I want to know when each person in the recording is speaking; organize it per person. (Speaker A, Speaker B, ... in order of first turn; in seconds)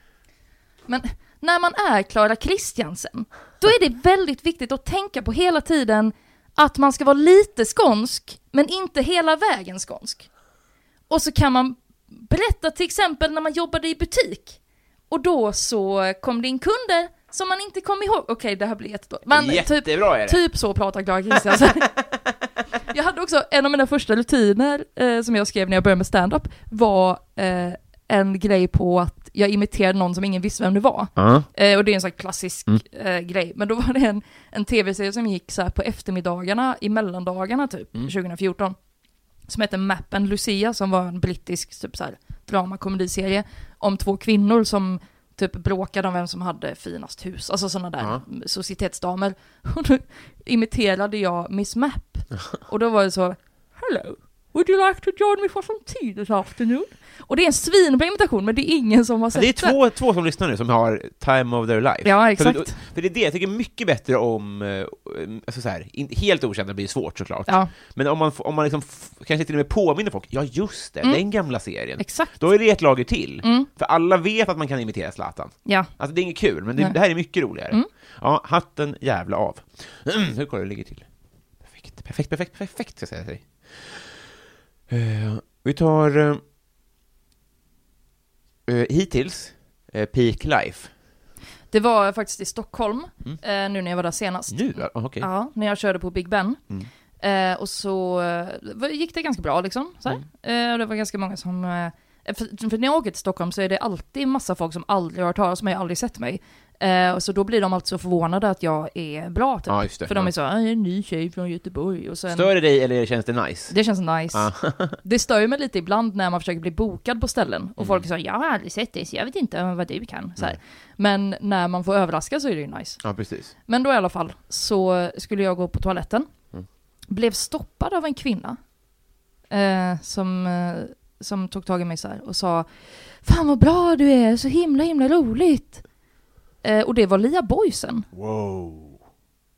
Speaker A: 0.9-10.3, 11.1-14.6, 15.1-22.1, 22.9-38.8, 39.5-59.8, 62.0-62.8, 72.0-72.5, 73.4-73.7, 91.7-96.6, 97.2-112.5, 113.7-123.0, 123.7-126.3, 127.1-128.6, 129.5-135.8, 136.6-138.1
Speaker B: 19.3-20.4, 31.2-31.5, 59.3-81.1, 81.6-84.3, 84.9-86.4, 88.7-90.9, 94.5-95.3, 109.7-110.3, 112.3-113.8, 114.3-115.0, 117.8-118.1, 123.0-123.5, 138.1-139.0